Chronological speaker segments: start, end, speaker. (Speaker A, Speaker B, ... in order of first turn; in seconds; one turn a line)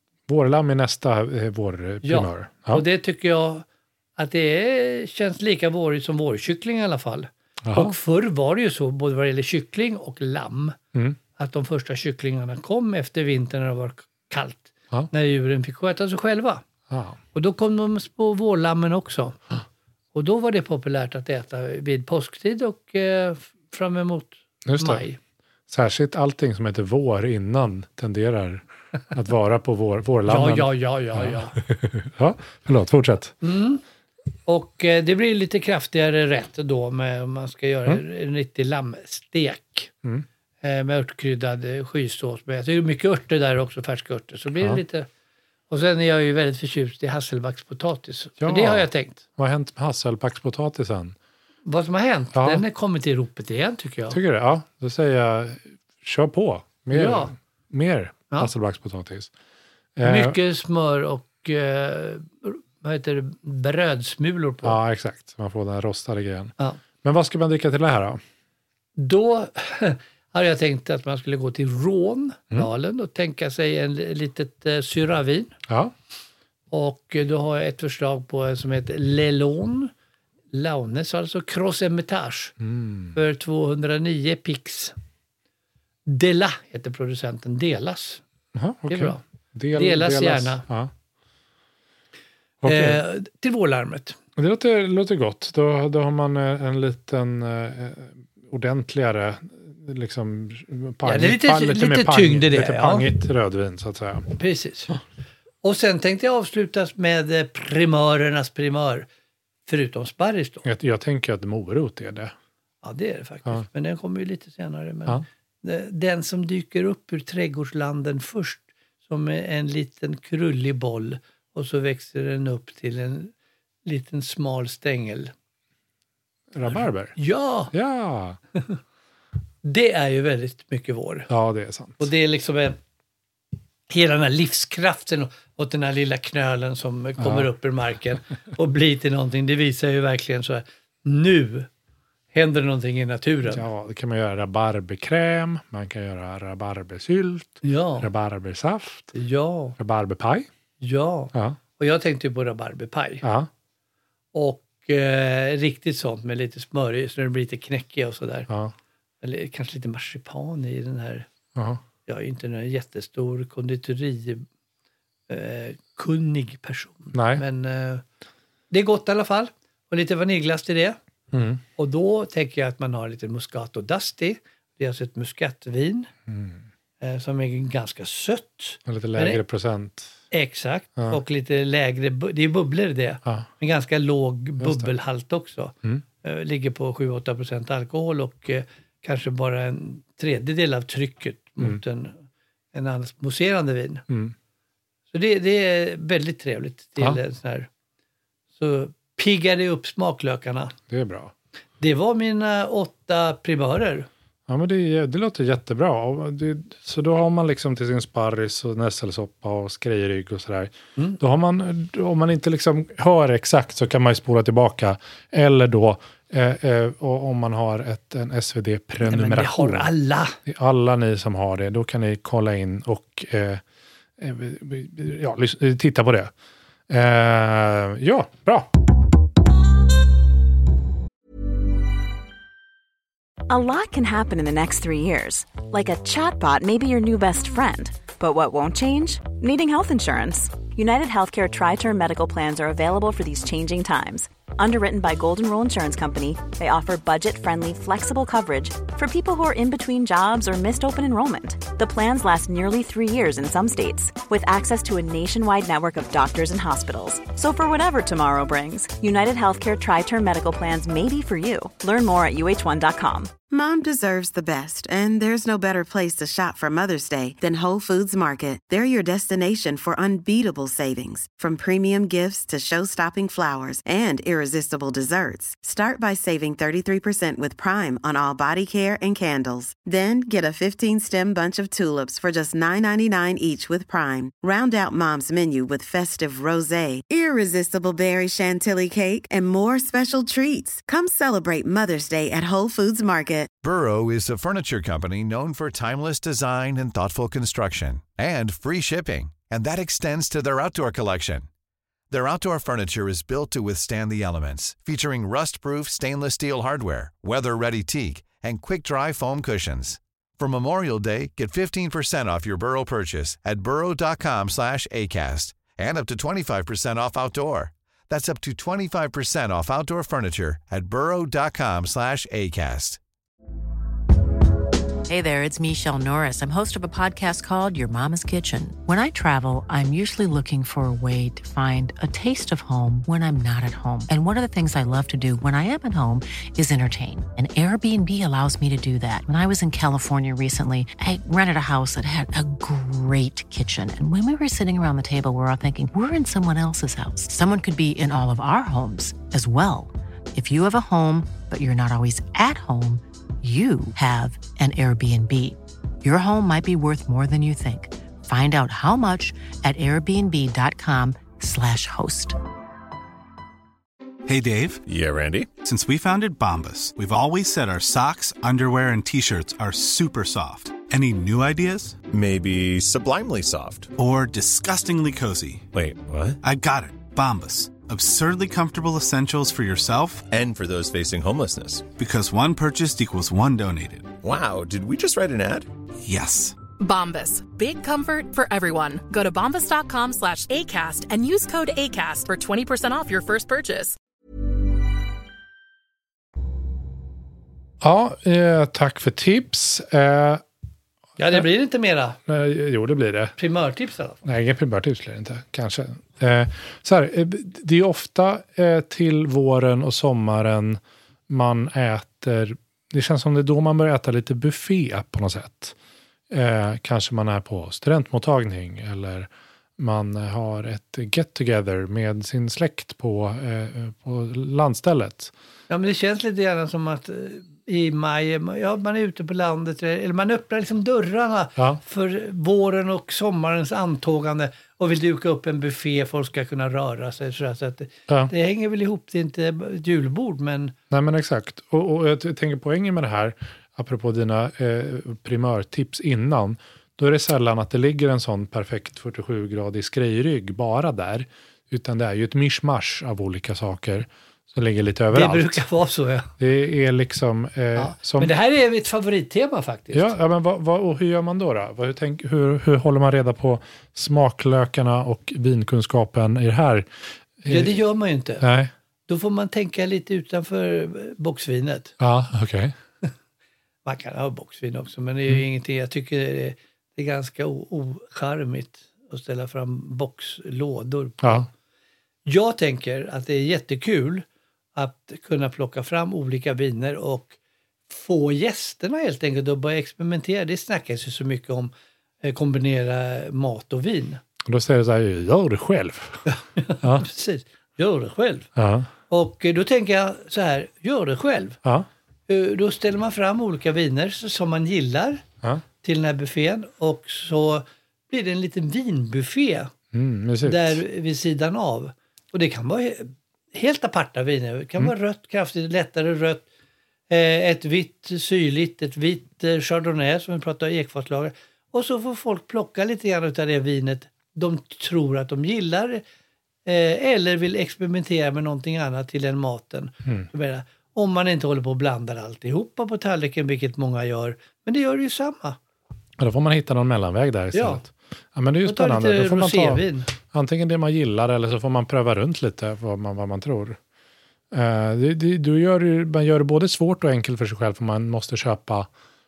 Speaker A: 0.3-2.9
Speaker B: 2.0-3.6
Speaker B: 4.2-10.8
Speaker A: 7.7-8.0
Speaker B: 11.4-16.6
Speaker A: 16.9-17.2
Speaker B: 17.3-19.4
Speaker B: 20.1-25.2
Speaker A: 24.7-25.1
Speaker A: 25.7-33.4
Speaker B: 30.3-31.6
Speaker B: 33.4-33.8
Speaker B: 34.5-39.9
Speaker B: 40.6-45.1
Speaker B: 45.7-49.2
Speaker A: 48.4-51.2
Speaker B: 51.7-54.2
Speaker A: 52.3-52.6
Speaker A: 54.1-59.3
Speaker B: 56.9-57.3
Speaker A: 60.0-60.4
Speaker B: 60.0-64.8
Speaker A: 64.6-68.2
Speaker B: 69.0-75.5
Speaker A: 75.7-75.9
Speaker B: 76.7-79.9
Speaker B: 80.5-82.5
Speaker A: 82.6-83.2
Speaker B: 83.1-84.9
Speaker B: 86.1-88.2
Speaker A: 88.5-90.9
Speaker B: 88.9-89.2
Speaker B: 89.7-90.6
Speaker A: 92.6-93.0
Speaker B: 92.6-94.2
Speaker A: 94.4-104.3
Speaker B: 101.0-103.1
Speaker B: 104.3-104.9
Speaker B: 105.6-109.1
Speaker B: 109.7-110.7
Speaker A: 110.6-112.3
Speaker B: 112.8-123.3
Speaker B: 123.9-125.3
Speaker A: 126.5-127.2
Speaker B: 126.7-127.7
Speaker A: 127.7-128.4
Speaker B: 129.6-131.3
Speaker A: 131.3-132.1
Speaker B: 132.0-132.8
Speaker B: 133.9-141.7
Speaker A: 137.2-137.5
Speaker B: 142.3-143.7
Speaker A: 143.5-149.1
Speaker B: 147.6-148.1
Speaker B: 149.1-149.8
Speaker A: 149.8-150.5
Speaker B: 150.8-153.2
Speaker A: 151.3-151.6
Speaker A: 153.2-153.5
Speaker B: 154.3-158.5
Speaker B: 159.2-161.3
Speaker A: 161.6-161.8
Speaker B: 162.1-164.4
Speaker B: 165.3-168.0
Speaker A: 167.1-167.4
Speaker B: 168.7-171.0
Speaker A: 171.3-171.6
Speaker B: 171.8-176.1
Speaker A: 176.3-176.6
Speaker B: 177.0-179.4
Speaker A: 178.9-180.1
Speaker B: 180.3-192.2
Speaker A: 184.6-184.9
Speaker B: 192.7-194.1
Speaker A: 194.1-194.3
Speaker B: 195.1-197.7
Speaker B: 198.6-200.7
Speaker A: 200.9-201.3
Speaker B: 201.8-204.1
Speaker A: 204.5-219.9
Speaker B: 219.0-220.4
Speaker A: 220.4-223.6
Speaker A: 224.2-226.3
Speaker A: 226.9-228.7
Speaker C: 233.5-263.3
Speaker D: 263.5-293.5
Speaker E: 293.6-301.5
Speaker E: 302.1-323.0
Speaker F: 325.1-362.4
Speaker G: 364.3-364.8
Speaker H: 364.9-365.5
Speaker G: 365.6-372.0
Speaker H: 372.1-373.9
Speaker G: 374.0-375.7
Speaker H: 375.7-376.4
Speaker G: 376.4-380.3
Speaker H: 380.3-381.9
Speaker G: 381.9-384.1
Speaker H: 384.2-385.7
Speaker G: 386.0-386.6
Speaker I: 386.8-394.0
Speaker A: 397.8-400.4
Speaker B: 401.2-402.2
Speaker A: 402.3-403.4
Speaker B: 403.4-404.2
Speaker A: 404.2-415.8
Speaker A: 416.3-425.3
Speaker B: 425.7-440.7
Speaker A: 440.9-455.6
Speaker B: 455.1-456.3
Speaker A: 456.4-458.3
Speaker B: 457.8-460.1
Speaker A: 459.9-466.9
Speaker A: 467.4-467.8
Speaker B: 467.5-468.4
Speaker A: 468.4-468.7
Speaker B: 469.1-471.9
Speaker A: 472.0-472.7
Speaker B: 473.9-481.5
Speaker A: 481.2-481.5
Speaker B: 482.3-487.4
Speaker B: 487.9-491.7
Speaker B: 492.2-494.2
Speaker A: 494.4-496.3
Speaker B: 496.3-498.5
Speaker A: 496.8-497.1
Speaker A: 498.6-498.9
Speaker B: 499.1-501.6
Speaker B: 502.3-505.2
Speaker B: 505.8-509.7
Speaker A: 509.9-510.8
Speaker B: 510.4-516.5
Speaker B: 517.1-526.0
Speaker B: 526.7-535.6
Speaker A: 536.2-543.8
Speaker B: 537.5-537.8
Speaker B: 538.6-540.1
Speaker A: 544.5-548.9